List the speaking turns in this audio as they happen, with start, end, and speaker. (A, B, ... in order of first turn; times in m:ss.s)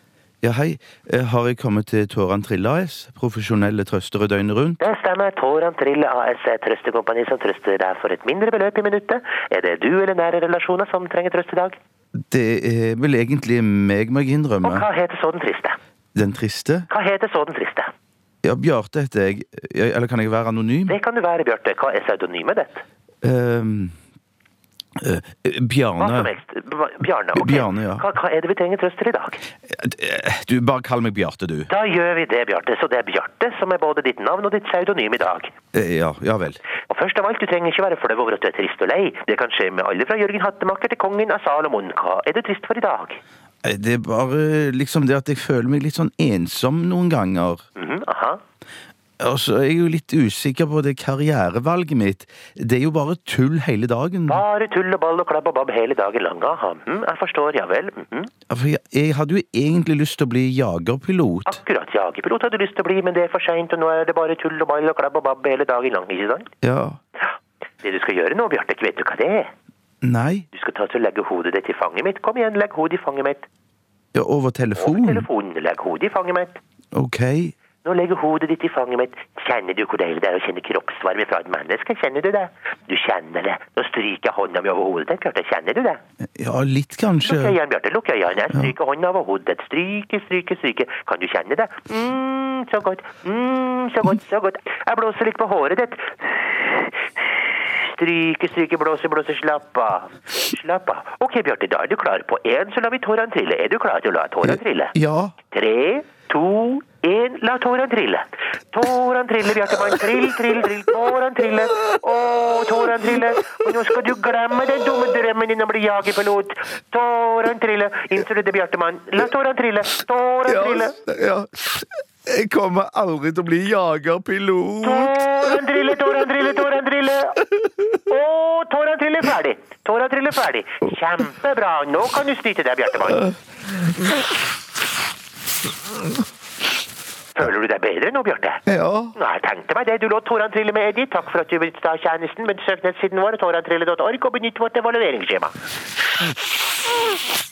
0:00.4-0:04.8 A
0:04.8-0:11.8 B
0:12.3-0:14.8 A
0:14.6-0:15.8 B
0:16.2-0:16.9 A
0:16.9-0:17.9 B
0:18.4-0:21.0 A
0:20.9-0:22.8 B
0:23.2-0:23.9 A
0:25.0-0:26.3 A
0:26.0-0:29.4 B
0:27.3-0:28.0 A
0:29.7-0:31.7 A
0:31.7-0:35.5 B
0:35.7-0:36.6 A
0:36.9-0:43.2 B
0:43.6-0:47.6 A
0:47.8-0:48.4 B
0:49.2-0:54.4 A
0:54.3-0:58.3 B
0:58.5-1:01.6 A
1:01.5-1:06.5 B
1:06.6-1:07.0 A
1:07.8-1:09.5 B
1:10.0-1:10.4 A
1:10.5-1:13.5 B
1:14.1-1:15.2 A
1:14.8-1:16.6 B
1:16.9-1:17.5 A
1:17.8-1:26.0 B
1:26.4-1:27.6 A
1:27.2-1:44.9 B
1:44.4-1:45.3 A
1:45.5-2:00.9 B
2:00.5-2:05.1 A
2:04.8-2:13.3 B
2:17.3-2:18.6 B
2:18.7-2:19.1 A
2:19.1-2:25.6 B